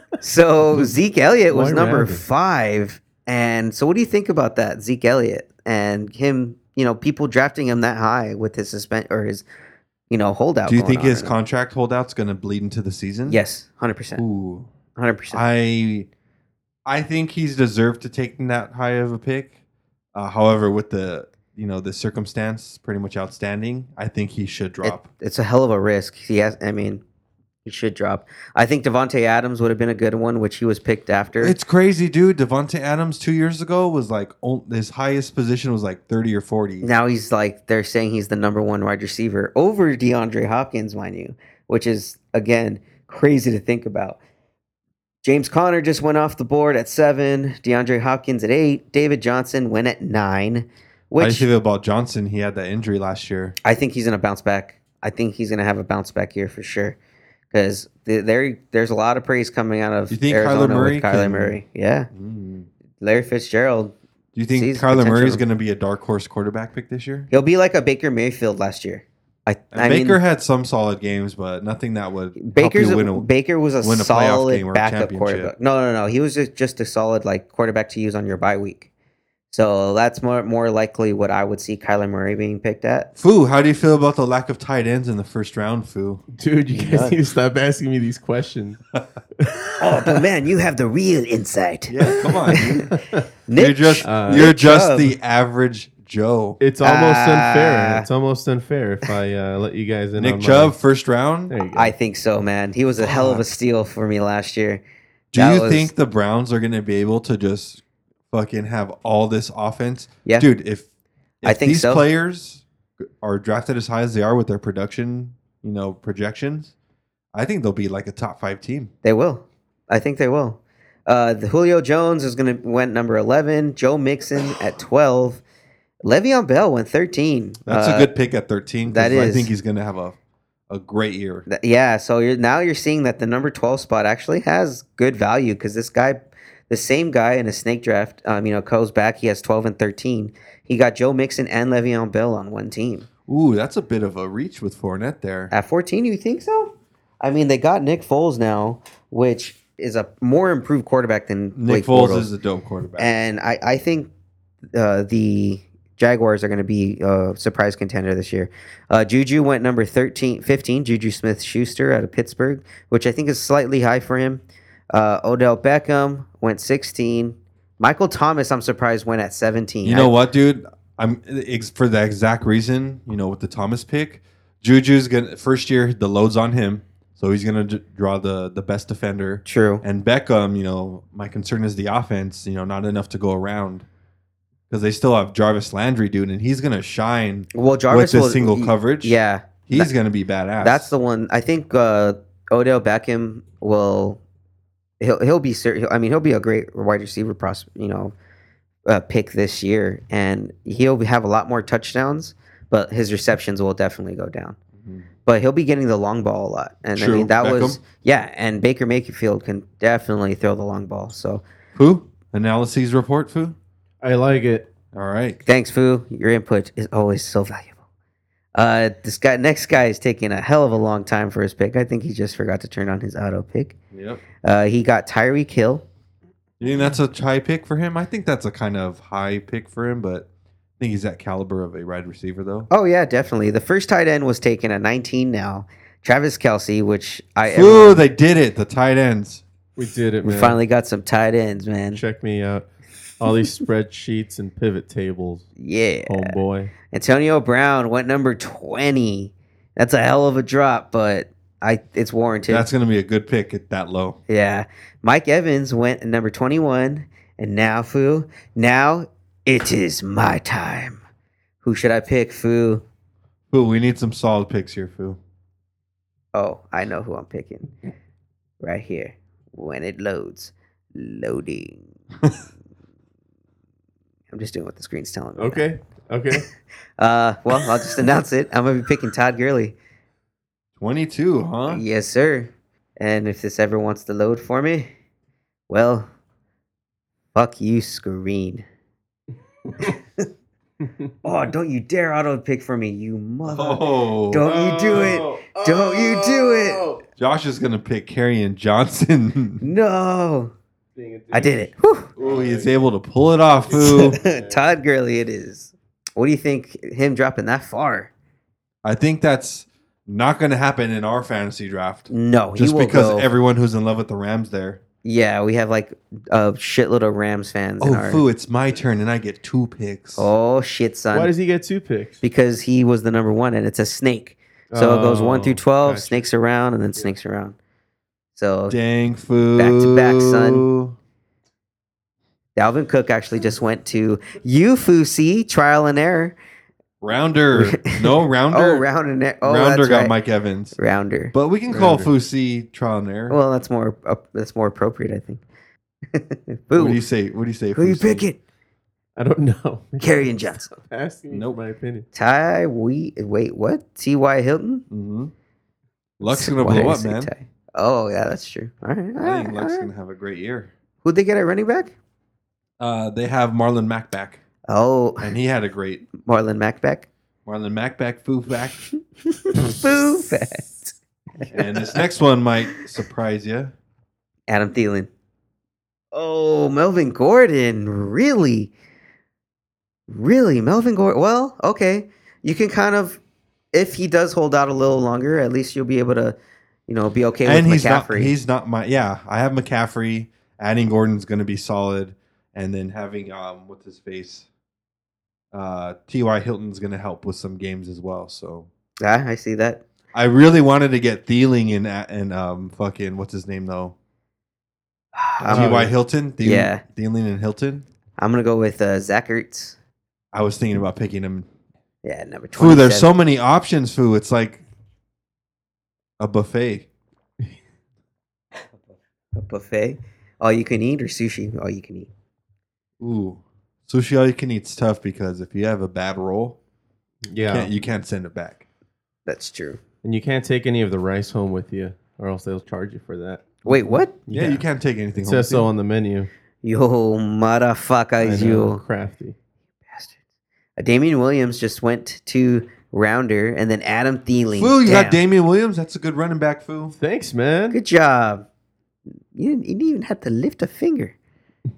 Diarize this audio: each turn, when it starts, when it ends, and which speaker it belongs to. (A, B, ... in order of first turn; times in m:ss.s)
0:00.2-0:09.4 A
0:01.5-0:02.2 B
0:10.1-0:11.3 A
0:10.6-0:13.4 C
0:13.3-0:14.2 A
0:14.1-0:14.7 C
0:15.0-0:15.4 A
0:15.3-0:16.1 C
0:16.8-0:19.5 C
0:20.1-0:25.1 C
0:24.8-0:27.0 A
0:27.6-0:31.6 A
0:31.4-0:36.9 C
0:36.8-0:44.2 A
0:45.2-0:51.5 A
0:51.2-0:53.6 C
0:53.6-0:57.0 A
0:57.5-1:02.1 A
1:00.1-1:01.6 C
1:02.1-1:02.7 C
1:03.0-1:03.9 A
1:04.3-1:07.3 C
1:04.5-1:05.4 A
1:07.3-1:10.2 A
1:09.7-1:13.3 C
1:12.4-1:18.9 A
1:13.8-1:15.5 C
1:19.5-1:23.1 A
1:23.2-1:26.2 C
1:26.3-1:28.8 B
1:26.7-1:27.2 A
1:29.4-1:30.2 B
1:29.8-1:32.9 A
1:31.9-1:33.0 C
1:32.2-1:33.2 B
1:33.5-1:35.1 A
1:33.5-1:36.6 C
1:34.0-1:34.5 B
1:36.6-1:40.8 B
1:36.8-1:38.0 A
1:40.2-1:41.5 C
1:41.5-1:41.9 B
1:41.7-1:44.8 A
1:43.0-1:43.4 B
1:45.3-1:50.8 C
1:45.3-1:45.9 A
1:51.4-1:56.7 C
1:51.4-1:52.0 A
1:57.3-1:58.9 C
1:59.0-2:05.4 A
2:06.0-2:08.1 A
2:07.7-2:10.2 C
2:08.8-2:09.5 A
2:10.7-2:11.4 C
2:11.5-2:23.1 A
2:23.3-2:25.5 C
2:25.5-2:32.3 A
2:31.5-2:33.1 C
2:33.0-2:34.1 A
2:34.7-2:50.1 A
2:49.8-3:03.8 C
2:59.4-2:59.8 A
3:04.7-3:10.9 C
3:07.5-3:09.9 A
3:10.6-3:14.2 A
3:15.0-3:18.1 A
3:18.9-3:24.6 A
3:24.8-3:25.1 C
3:25.2-3:31.4 A
3:26.9-3:27.8 C
3:31.7-3:33.6 C
3:34.0-3:34.7 B
3:34.9-3:35.4 C
3:35.4-3:37.8 A
3:38.5-3:43.8 A
3:43.9-3:44.2 C
3:44.4-3:45.8 A
3:46.6-3:50.3 C
3:50.8-3:52.7 C
3:52.7-3:58.0 A
3:57.5-3:59.4 C
3:59.8-4:00.6 B
4:00.2-4:02.0 A
4:01.9-4:02.6 B
4:03.2-4:05.5 B
4:05.6-4:06.4 A
4:06.1-4:06.7 B
4:06.9-4:12.7 A
4:12.5-4:14.2 C
4:14.3-4:21.0 A
4:21.6-4:22.8 A
4:23.5-4:25.2 C
4:26.3-4:27.7 A
4:28.6-4:31.9 A
4:34.3-4:35.7 A
4:35.4-4:36.5 B
4:37.0-4:39.8 A
4:40.8-4:41.8 C
4:41.7-4:44.9 A
4:45.7-4:46.1 A
4:47.3-4:48.6 A
4:49.8-4:50.2 A
4:51.2-4:56.8 A
4:53.4-4:54.4 C
4:54.4-4:57.0 B
4:57.2-4:59.6 C
4:59.6-5:00.5 A
5:00.9-5:02.8 B
5:01.3-5:02.1 A
5:02.2-5:04.2 C
5:03.6-5:04.6 B
5:03.7-5:08.1 A
5:08.8-5:14.8 C
5:12.1-5:13.3 A
5:15.0-5:18.2 A
5:17.8-5:20.3 C
5:20.2-5:21.3 A
5:21.1-5:22.2 B
5:22.2-5:27.6 A
5:24.7-5:26.2 B
5:28.3-5:28.8 A
5:28.7-5:31.0 C
5:29.6-5:30.7 A
5:32.6-5:36.3 A
5:37.0-5:38.8 C
5:37.6-5:40.2 A
5:39.4-5:40.8 C
5:40.8-5:41.3 A
5:41.3-5:43.4 C
5:41.7-5:42.1 B
5:43.3-5:45.4 A
5:46.1-5:47.0 A
5:46.7-5:48.2 C
5:47.8-5:48.4 A
5:49.2-5:52.1 B
5:50.0-5:50.7 A
5:51.3-5:51.6 C
5:52.1-5:54.8 A
5:54.9-5:55.3 C
5:56.2-5:57.3 C
5:56.2-5:59.9 A
5:59.2-6:00.7 C
6:01.0-6:01.9 A
6:02.8-6:04.4 C
6:04.7-6:05.3 A
6:05.2-6:06.1 C
6:06.2-6:07.1 A
6:07.4-6:08.9 C
6:09.5-6:12.0 A
6:11.5-6:13.7 C
6:14.5-6:15.1 A
6:16.1-6:18.7 A
6:20.1-6:23.2 A
6:23.7-6:26.4 A
6:26.9-6:28.3 A
6:27.4-6:34.4 C
6:35.5-6:38.7 C
6:39.0-6:39.8 A
6:40.1-6:43.9 C
6:45.1-6:45.8 A
6:45.4-6:47.8 C
6:45.5-6:45.9 B
6:46.4-6:46.8 A
6:48.2-6:49.8 A
6:50.3-6:51.5 C
6:52.0-6:53.1 A
6:52.6-6:54.6 C
6:56.2-6:56.9 C
6:59.3-7:02.1 A
7:03.0-7:06.6 C
7:07.3-7:07.7 B
7:07.5-7:08.6 C
7:09.3-7:09.8 A
7:10.0-7:14.6 B
7:13.6-7:14.2 A
7:14.3-7:15.7 C
7:15.2-7:16.3 B
7:16.6-7:18.8 A
7:18.2-7:19.3 B
7:19.9-7:20.2 A
7:20.8-7:25.2 A
7:24.5-7:26.9 C
7:27.0-7:27.8 B
7:27.7-7:28.4 A
7:29.3-7:31.1 A